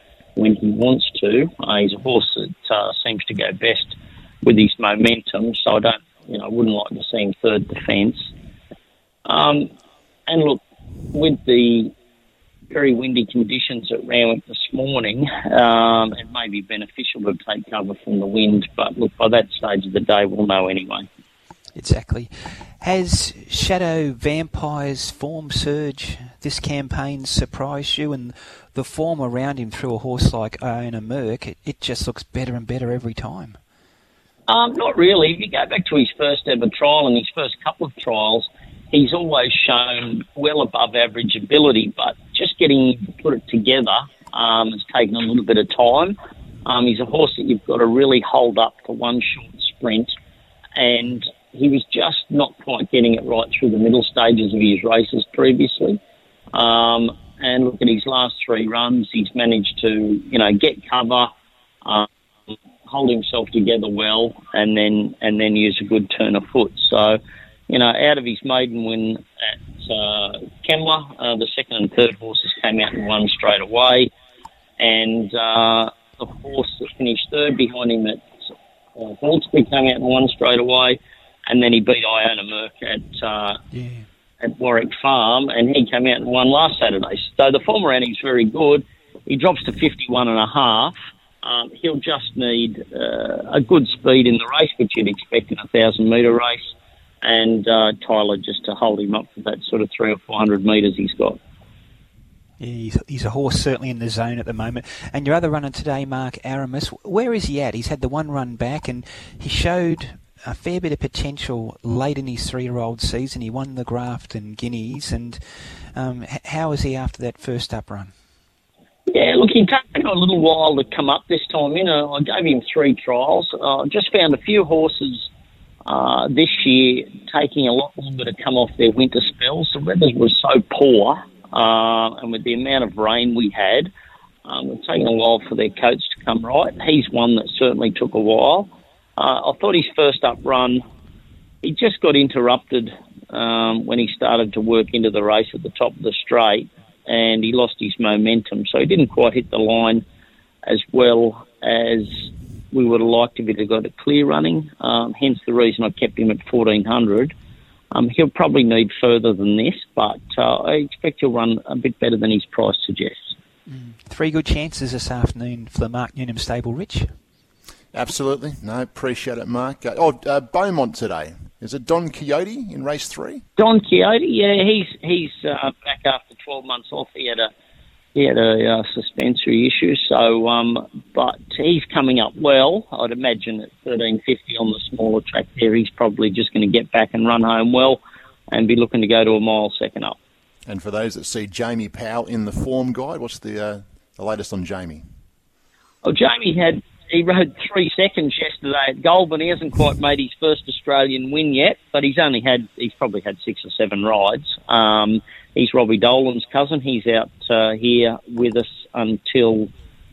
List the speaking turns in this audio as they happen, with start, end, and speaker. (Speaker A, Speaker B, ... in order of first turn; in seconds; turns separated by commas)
Speaker A: 0.4-8.3, Speaker A: 9.2-9.7, Speaker A: 10.3-10.6, Speaker A: 11.1-11.9, Speaker A: 12.7-21.1, Speaker B: 21.8-33.6, Speaker A: 34.5-50.1, Speaker A: 50.8-56.0, Speaker A: 56.5-61.3, Speaker A: 61.8-67.2, Speaker A: 67.7-69.2, Speaker A: 69.8-74.1, Speaker A: 74.8-78.3, Speaker A: 79.0-83.6, Speaker B: 83.7-84.0, Speaker A: 84.4-101.4, Speaker B: 102.6-118.1, Speaker A: 119.1-125.3, Speaker A: 125.9-133.9, Speaker A: 134.4-140.8, Speaker A: 141.6-150.0, Speaker A: 150.7-152.1, Speaker A: 152.7-157.3, Speaker A: 157.9-163.3, Speaker B: 163.7-167.1, Speaker C: 167.9-173.4, Speaker A: 173.6-177.5, Speaker A: 178.1-188.0, Speaker A: 188.5-190.2, Speaker C: 190.7-195.0, Speaker A: 196.0-209.7